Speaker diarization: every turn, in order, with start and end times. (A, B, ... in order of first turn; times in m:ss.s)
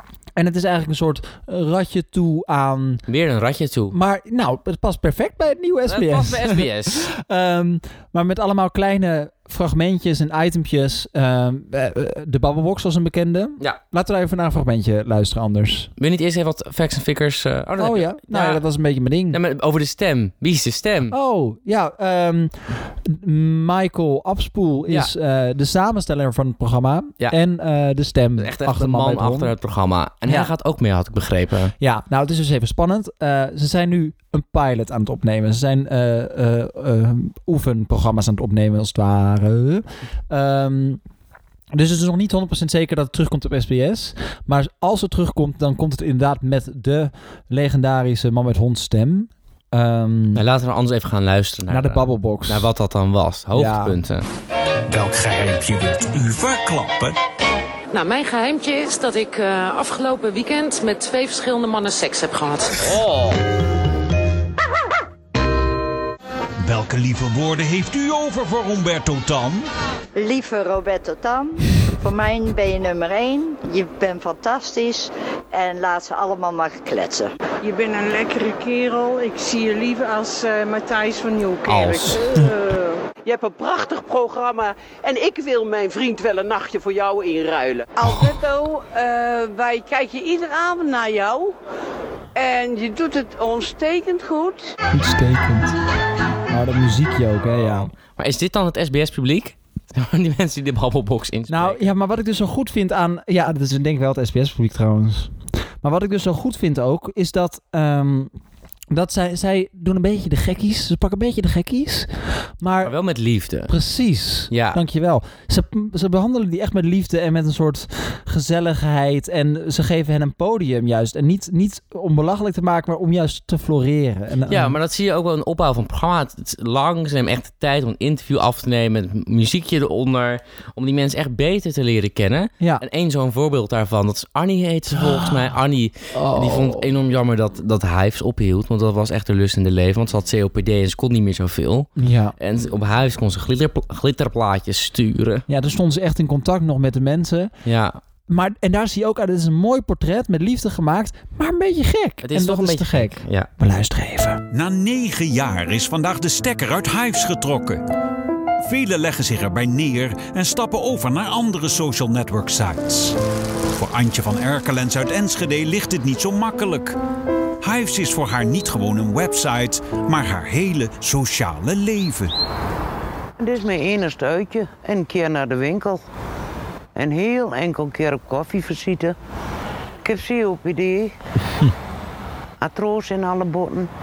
0:00.4-0:03.0 A
0:03.1-0:04.0 B
0:03.9-0:15.9 A
0:05.9-0:07.1 B
0:16.0-0:18.6 B
0:17.8-0:19.4 A
0:19.3-0:21.1 B
0:21.1-0:29.5 A
0:28.4-0:31.7 B
0:30.2-0:30.5 A
0:31.8-0:41.0 A
0:41.7-0:50.4 A
0:50.3-0:54.2 B
0:51.7-0:52.7 A
0:53.5-0:54.0 A
0:54.9-0:57.2 C
0:57.9-1:03.1 D
1:06.6-1:09.6 C
1:10.2-1:17.3 E
1:17.6-1:31.5 F
1:21.6-1:22.4 B
1:32.4-1:34.7 F
1:34.9-1:35.7 A
1:36.5-1:37.9 A
1:38.0-1:41.9 B
1:41.5-1:48.3 A
1:48.9-1:53.0 A
1:52.8-1:53.7 B
1:53.7-2:04.8 A
1:54.5-1:54.8 B
2:04.5-2:25.4 B
2:16.1-2:16.8 A
2:22.0-2:22.3 A
2:25.5-2:27.5 A
2:27.6-2:28.0 B
2:28.3-2:34.4 A
2:32.2-2:33.5 B
2:34.5-2:37.8 C
2:38.6-2:43.2 C
2:43.7-2:47.0 C
2:47.6-2:52.3 C
2:53.4-2:56.0 G
2:57.0-2:59.2 G
3:00.0-3:01.1 G
3:02.6-3:03.9 G